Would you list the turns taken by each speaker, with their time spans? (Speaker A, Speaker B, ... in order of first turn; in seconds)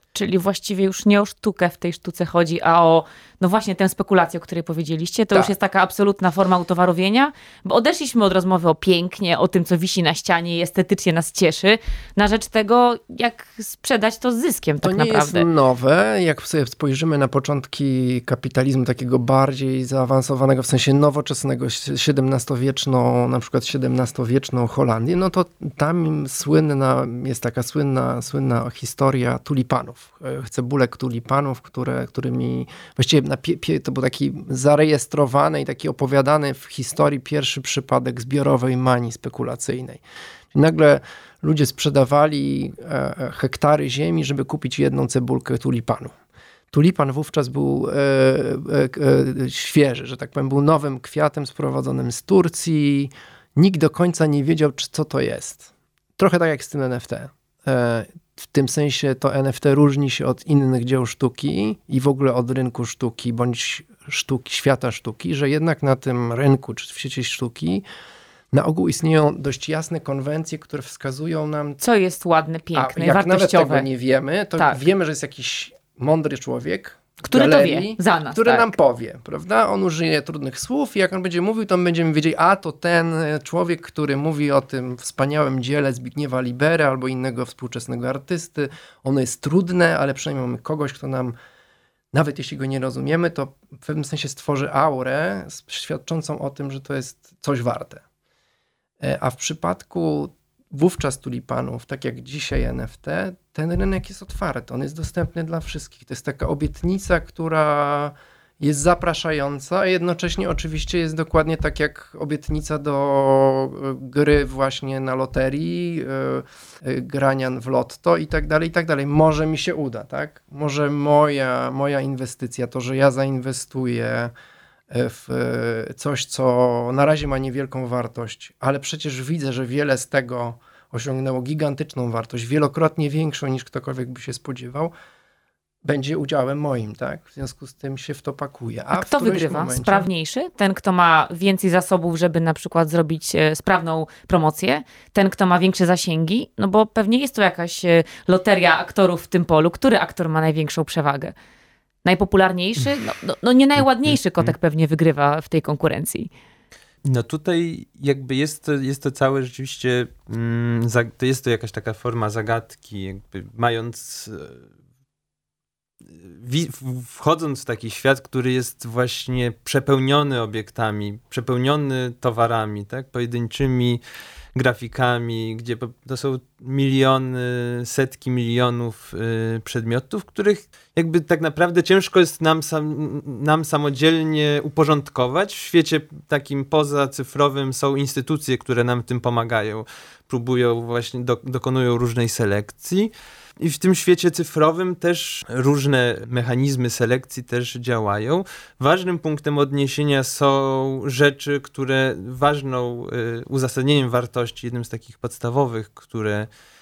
Speaker A: 0.1-15.4, 71.8-73.9, 77.2-78.7, 138.9-151.3, 152.0-156.3
Speaker B: 14.8-40.0, 40.5-46.1, 46.7-67.8, 68.5-71.8, 72.7-91.3, 92.1-98.0, 99.0-124.3, 124.9-134.9, 135.8-140.1
Speaker C: 154.1-154.5, 157.0-164.6, 166.1-174.0, 174.5-206.5